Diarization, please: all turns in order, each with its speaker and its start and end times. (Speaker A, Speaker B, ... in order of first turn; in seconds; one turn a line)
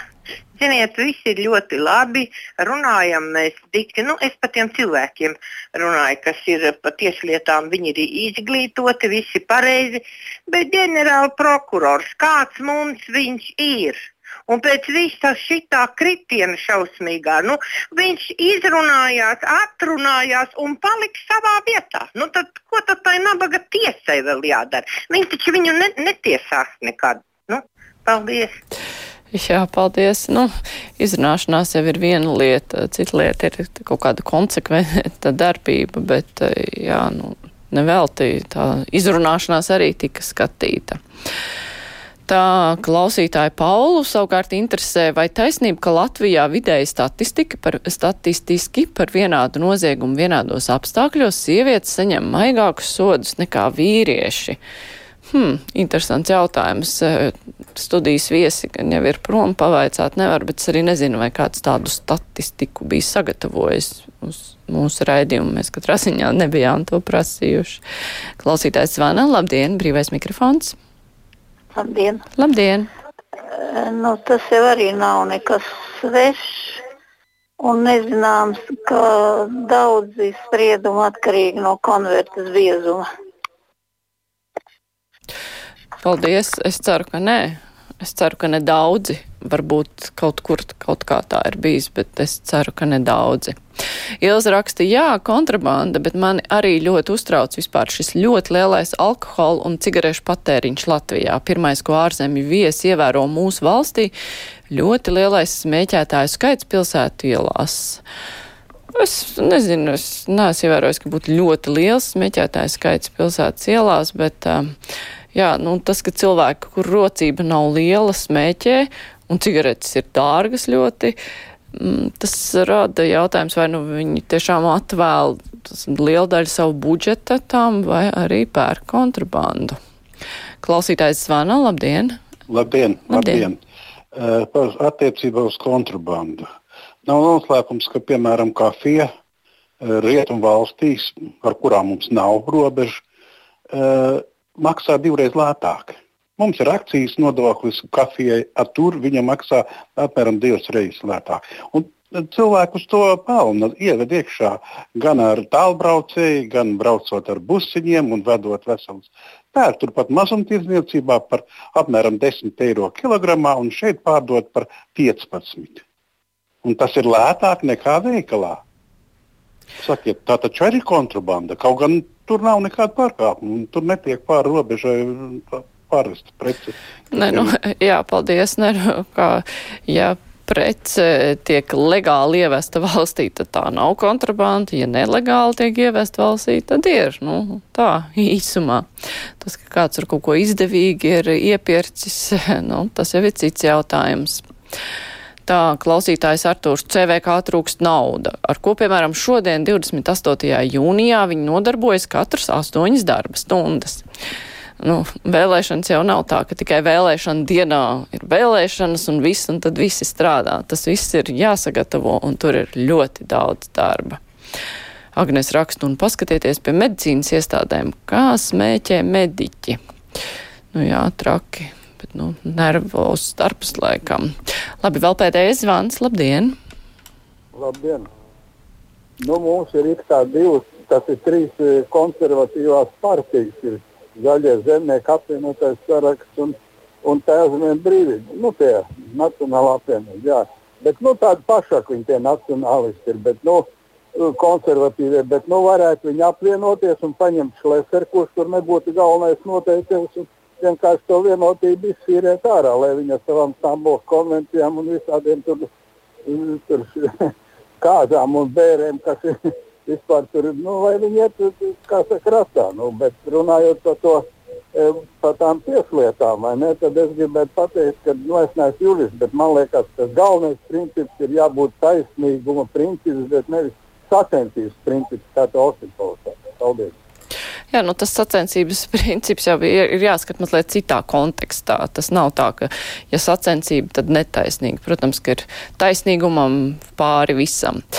Speaker A: 0.6-28.5
Speaker B: 29.3-41.0
Speaker B: 42.3-54.6
Speaker B: 55.3-67.8
Speaker B: 68.4-70.8
Speaker C: 71.8-72.2
Speaker B: 72.4-72.9
Speaker C: 73.6-76.8
Speaker C: 77.6-83.1
Speaker B: 86.0-93.6
Speaker B: 94.2-104.1
Speaker B: 104.7-108.0
Speaker B: 108.9-114.7
Speaker B: 115.3-121.2
Speaker B: 121.7-129.8
Speaker B: 130.6-132.2
Speaker D: 132.5-133.6
Speaker B: 133.1-133.5
Speaker D: 134.2-136.4
Speaker D: 137.1-139.1
Speaker D: 139.8-143.0
Speaker D: 143.7-165.8
Speaker D: 166.6-168.6
Speaker D: 169.8-177.5
Speaker B: 177.1-188.9
Speaker B: 189.4-194.5
Speaker B: 195.4-204.0
Speaker B: 204.8-214.2
Speaker B: 215.1-219.8
Speaker B: 220.7-226.6
Speaker E: 227.5-228.1
Speaker E: 229.2-255.7
Speaker E: 256.3-259.3
Speaker E: 259.9-276.9
Speaker B: 277.7-287.8